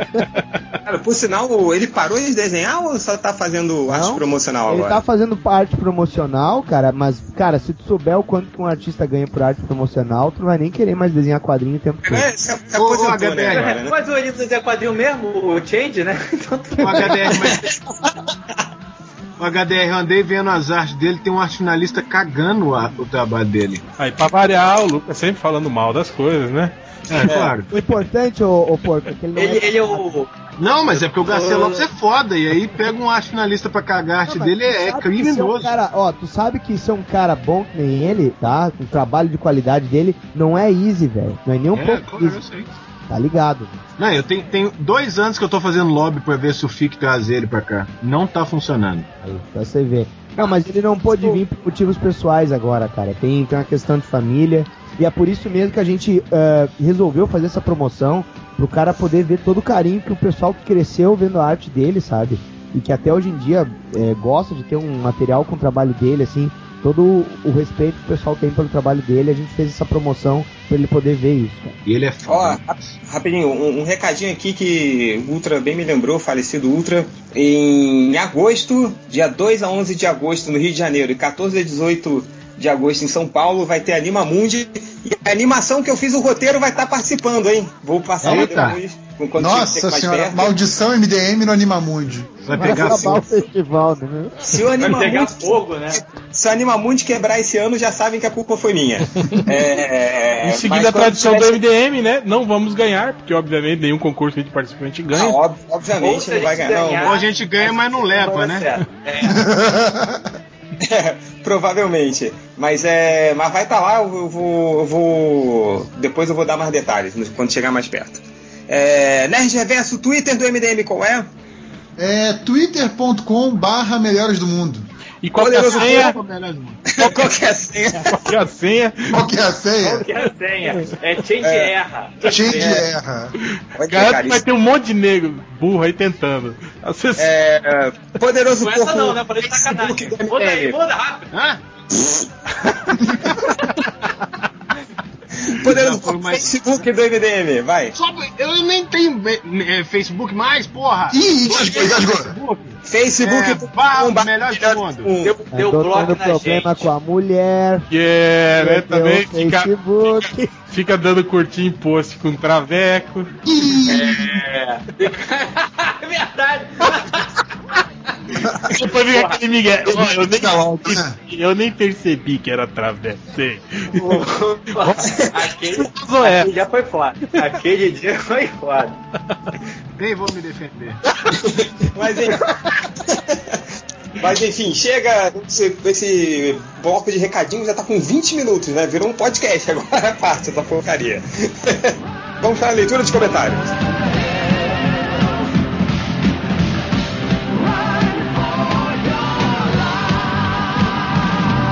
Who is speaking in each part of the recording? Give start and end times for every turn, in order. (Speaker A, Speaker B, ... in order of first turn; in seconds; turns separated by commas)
Speaker A: 0.8-5.0, Speaker B: 3.9-12.2, Speaker A: 12.0-13.9, Speaker C: 12.7-13.7, Speaker D: 13.5-17.4, Speaker C: 16.8-17.6, Speaker C: 19.4-23.8, Speaker E: 24.0-26.8, Speaker C: 27.1-27.7, Speaker D: 27.2-27.5, Speaker B: 27.7-30.0, Speaker D: 29.4-31.9, Speaker C: 30.6-35.7, Speaker B: 34.3-42.4, Speaker C: 41.7-42.7, Speaker B: 43.1-43.8, Speaker C: 44.0-49.1, Speaker B: 49.2-71.8, Speaker C: 71.8-72.6, Speaker A: 72.2-90.5, Speaker C: 88.2-88.8, Speaker F: 89.4-92.4, Speaker C: 92.4-93.3, Speaker B: 92.5-94.3, Speaker A: 94.4-101.6, Speaker D: 94.8-96.0, Speaker E: 100.4-105.4, Speaker A: 105.1-107.1, Speaker D: 106.0-109.3, Speaker C: 107.0-108.7, Speaker F: 109.2-110.2, Speaker A: 110.8-121.3, Speaker F: 122.0-124.9, Speaker E: 125.2-126.2, Speaker A: 125.4-126.0, Speaker C: 125.7-126.8, Speaker A: 126.9-128.1, Speaker E: 128.1-129.1, Speaker F: 129.1-130.1, Speaker D: 129.8-132.8, Speaker A: 131.4-131.7, Speaker F: 132.2-133.3, Speaker A: 133.7-134.4, Speaker E: 133.9-137.3, Speaker A: 137.2-140.8, Speaker D: 138.6-141.3, Speaker C: 141.3-141.6, Speaker A: 145.6-147.9, Speaker C: 145.6-146.8, Speaker C: 147.9-155.1, Speaker F: 151.1-152.3, Speaker A: 152.8-155.3, Speaker D: 155.2-156.9, Speaker B: 155.5-157.8, Speaker E: 157.9-163.3, Speaker B: 158.6-160.6, Speaker F: 163.4-164.2, Speaker D: 163.9-167.2, Speaker E: 168.7-174.2, Speaker D: 169.1-169.4, Speaker F: 169.9-171.2, Speaker D: 173.9-179.0, Speaker E: 174.8-175.0, Speaker E: 175.8-176.5, Speaker C: 180.0-181.0, Speaker A: 181.9-182.4, Speaker A: 184.2-193.8